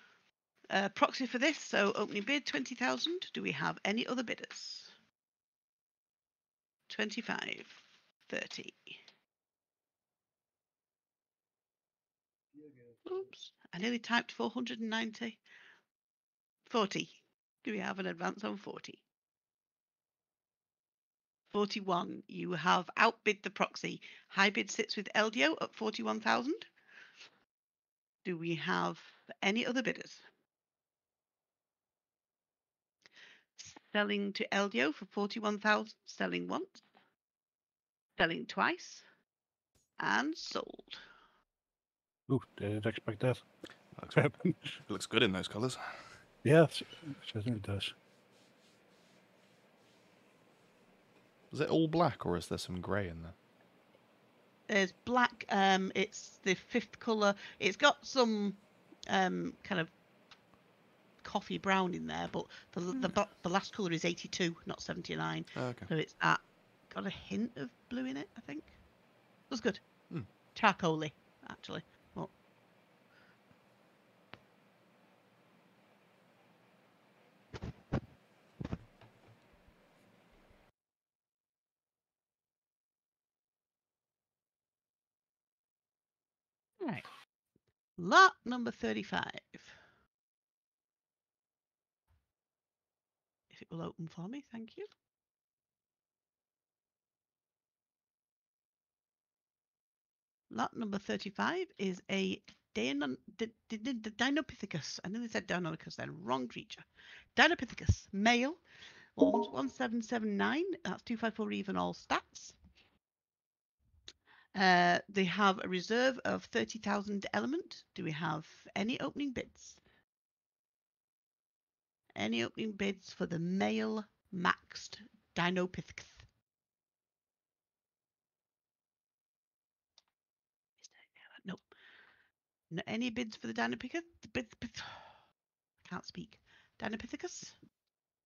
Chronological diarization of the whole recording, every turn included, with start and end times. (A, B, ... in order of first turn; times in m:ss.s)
0:00.7-0:04.9 A
0:06.9-0:09.0 A
0:13.0-0:15.4 A
0:16.7-0:19.0 A
0:21.5-0:26.7 A
0:28.2-0:30.2 A
0:33.6-0:36.8 A
0:38.2-0:39.0 A
0:40.0-0:41.0 A
0:42.3-0:43.4 B
0:43.9-0:46.2 C
0:44.1-0:44.8 B
0:46.4-0:47.9 B
0:51.5-0:53.4 C
0:54.7-0:59.9 A
1:01.2-1:08.8 A
1:05.5-1:05.9 C
1:09.5-1:12.3 A
1:26.8-1:27.0 A
1:28.0-1:29.7 A
1:33.5-1:34.9 A
1:40.5-1:46.8 A
1:47.4-1:48.6 A
1:49.2-1:52.6 A
1:54.5-1:59.8 A
2:02.2-2:06.2 A
2:10.9-2:11.6 A
2:12.7-2:15.1 A
2:15.8-2:17.5 A